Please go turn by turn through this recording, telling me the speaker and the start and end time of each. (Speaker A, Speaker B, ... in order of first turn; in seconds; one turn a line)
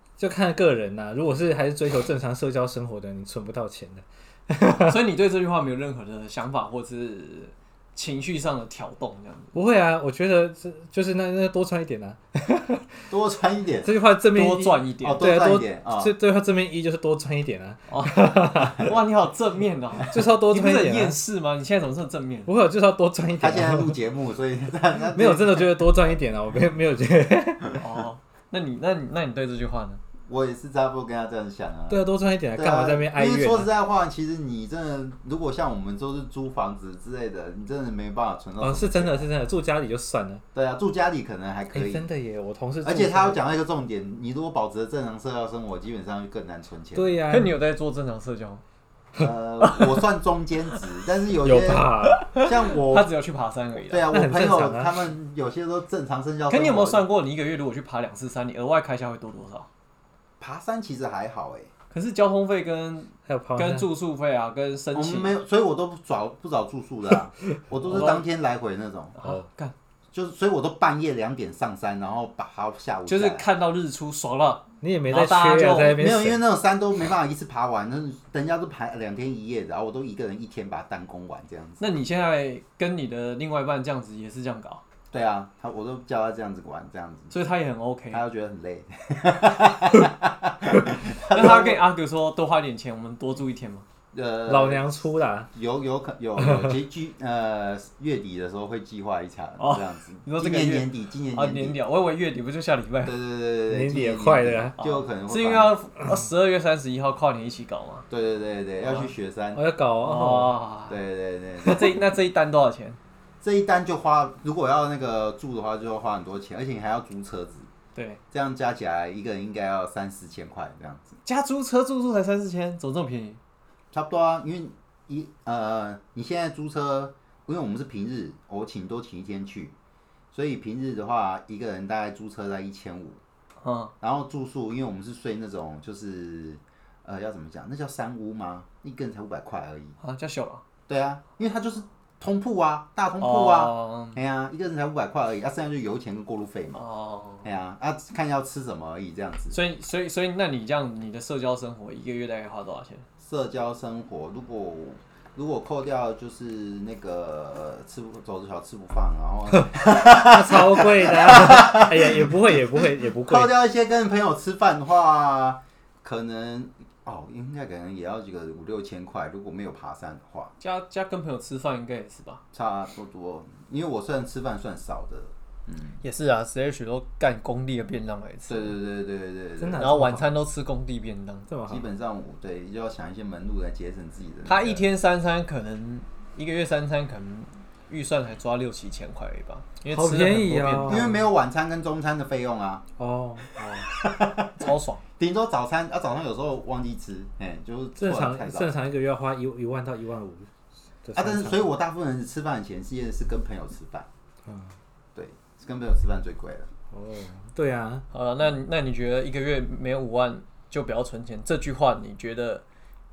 Speaker A: 0.2-5.0
Speaker B: 4.7-9.5
Speaker A: 9.5-13.1
Speaker C: 13.1-13.9
Speaker A: 13.8-18.9
Speaker B: 14.3-15.2
Speaker C: 15.0-16.1
Speaker B: 17.9-22.5
Speaker A: 20.1-21.2
Speaker A: 22.5-24.0
Speaker C: 23.4-26.0
Speaker A: 25.1-27.7
Speaker B: 27.8-30.0
Speaker C: 30.3-32.0
Speaker A: 31.9-33.7
Speaker C: 32.5-39.3
Speaker A: 38.6-40.4
Speaker C: 40.5-42.1
Speaker A: 41.7-43.4
Speaker C: 42.8-47.2
Speaker A: 47.0-47.5
Speaker B: 47.3-48.6
Speaker C: 49.2-53.1
Speaker B: 49.6-50.0
Speaker A: 51.4-52.2
Speaker B: 52.0-54.0
Speaker C: 53.9-57.0
Speaker A: 54.1-54.9
Speaker B: 56.5-59.7
Speaker C: 60.4-61.7
Speaker B: 61.9-65.3
Speaker A: 63.3-63.9
Speaker C: 65.0-69.2
Speaker B: 67.9-68.2
Speaker B: 69.2-69.7
Speaker C: 70.1-73.5
Speaker B: 73.1-76.0
Speaker A: 74.8-76.4
Speaker C: 75.8-81.9
Speaker B: 81.8-84.8
Speaker C: 85.1-87.3
Speaker B: 87.3-88.2
Speaker C: 88.1-91.8
Speaker B: 91.3-93.8
Speaker C: 94.1-101.8
Speaker A: 94.5-95.5
Speaker A: 96.4-96.8
Speaker B: 99.6-103.2
Speaker C: 103.0-105.7
Speaker A: 103.7-104.8
Speaker B: 104.8-108.0
Speaker C: 108.1-109.6
Speaker B: 108.8-109.1
Speaker A: 109.5-110.6
Speaker B: 110.0-111.0
Speaker C: 110.9-111.9
Speaker B: 111.6-113.0
Speaker C: 113.4-117.7
Speaker B: 118.0-118.2
Speaker C: 118.3-121.2
Speaker B: 121.2-123.4
Speaker C: 123.9-129.7
Speaker C: 130.3-133.2
Speaker B: 133.6-133.9
Speaker C: 134.0-140.0
Speaker B: 140.0-140.6
Speaker C: 140.9-146.8
Speaker B: 143.2-144.2
Speaker B: 146.7-147.5
Speaker C: 147.4-149.6
Speaker B: 149.5-153.0
Speaker C: 153.2-170.5
Speaker A: 159.6-163.5
Speaker B: 170.6-172.4
Speaker C: 172.5-176.0
Speaker B: 176.0-178.7
Speaker C: 178.5-179.8
Speaker A: 179.6-180.3
Speaker B: 179.8-181.5
Speaker A: 181.5-181.9
Speaker C: 181.7-184.8
Speaker B: 184.4-191.1
Speaker A: 189.9-191.2
Speaker C: 190.9-192.8
Speaker A: 193.0-193.9
Speaker C: 193.9-198.7
Speaker B: 194.6-195.0
Speaker A: 198.0-200.5
Speaker A: 201.0-201.7
Speaker C: 201.2-204.1
Speaker A: 204.5-204.7
Speaker C: 205.2-206.7
Speaker A: 206.9-208.1
Speaker B: 208.1-212.6